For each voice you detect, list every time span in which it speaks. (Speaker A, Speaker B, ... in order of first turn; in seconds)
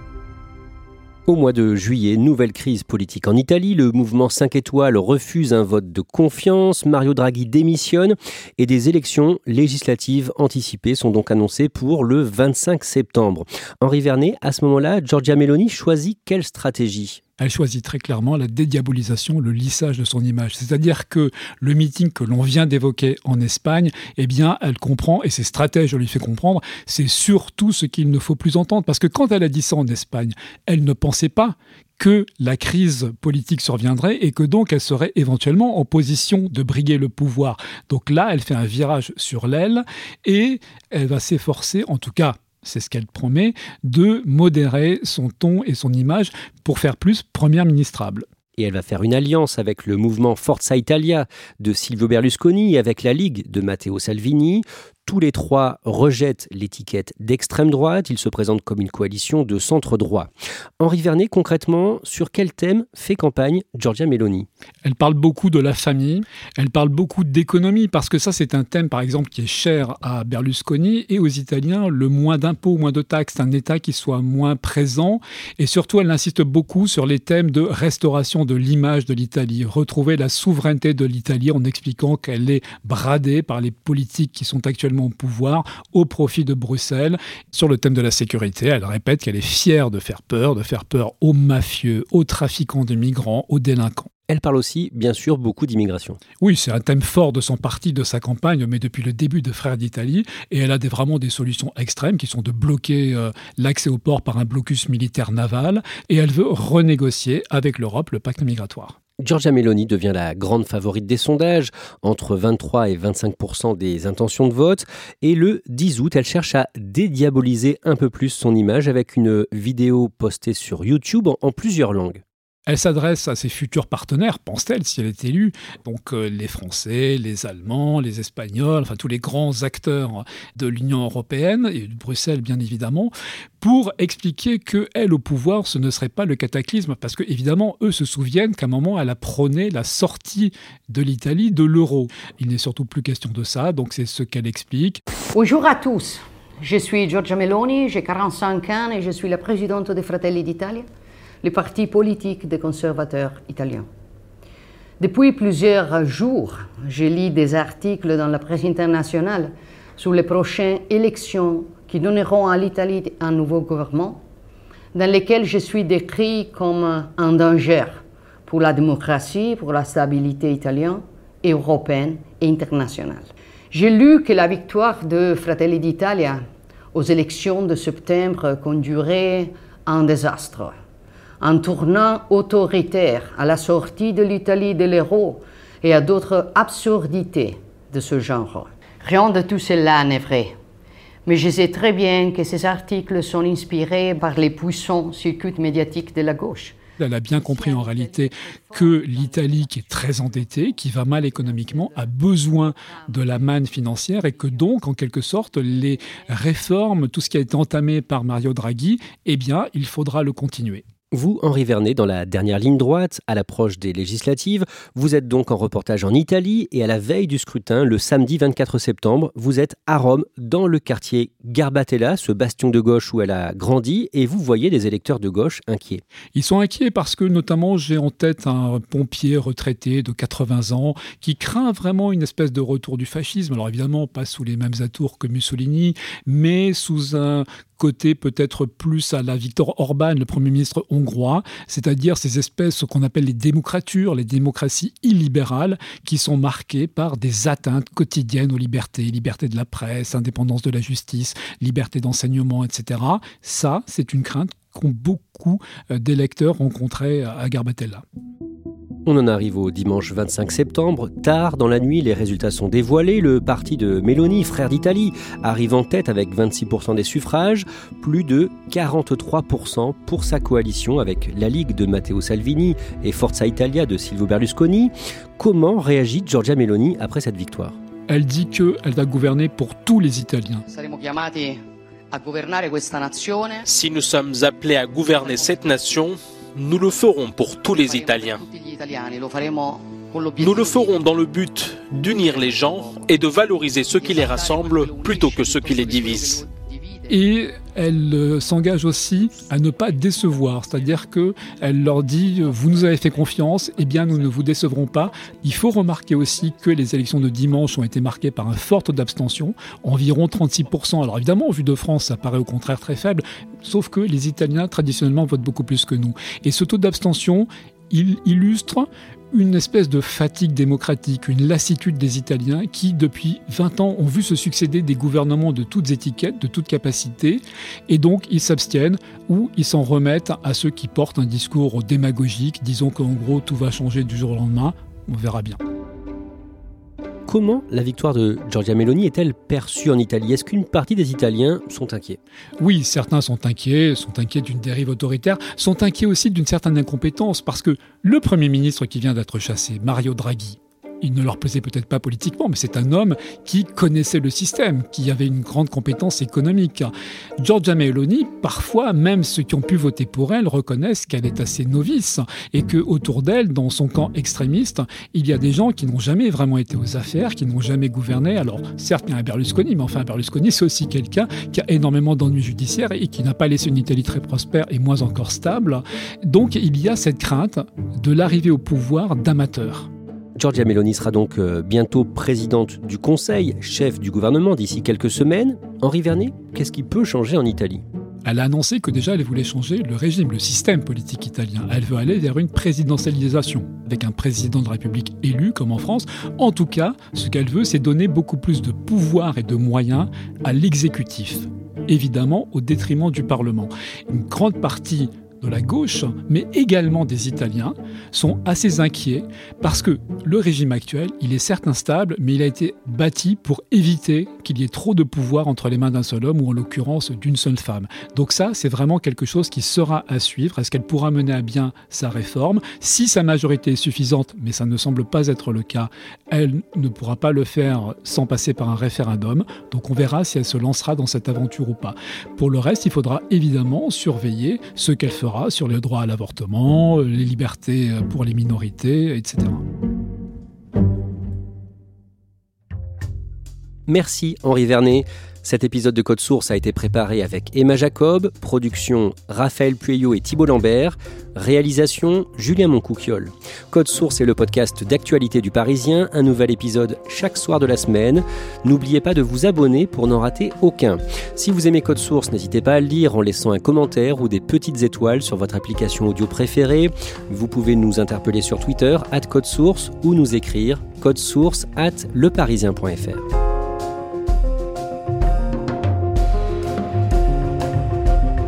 Speaker A: 1.3-17.2, 48.6-64.5, 94.3-96.2, 109.2-122.2, 211.1-226.0, 259.1-277.8, 337.3-342.2, 380.4-387.8, 443.9-473.3
Speaker B: 17.4-48.2, 64.8-94.1, 96.4-109.0, 122.7-145.0, 197.0-210.8, 226.3-258.0, 278.1-280.6, 297.1-335.6, 342.6-379.9, 388.2-439.6
Speaker C: 145.3-150.9, 151.4-153.9, 155.0-164.2, 164.9-180.8, 181.4-190.5, 191.3-196.8, 197.7-202.1, 202.8-203.6, 204.2-204.6, 205.7-206.3, 280.7-281.6, 282.1-283.7, 285.1-285.7, 287.6-291.1, 292.0-297.1, 302.6-305.6, 306.2-306.6
Speaker D: 283.6-288.4, 290.4-296.5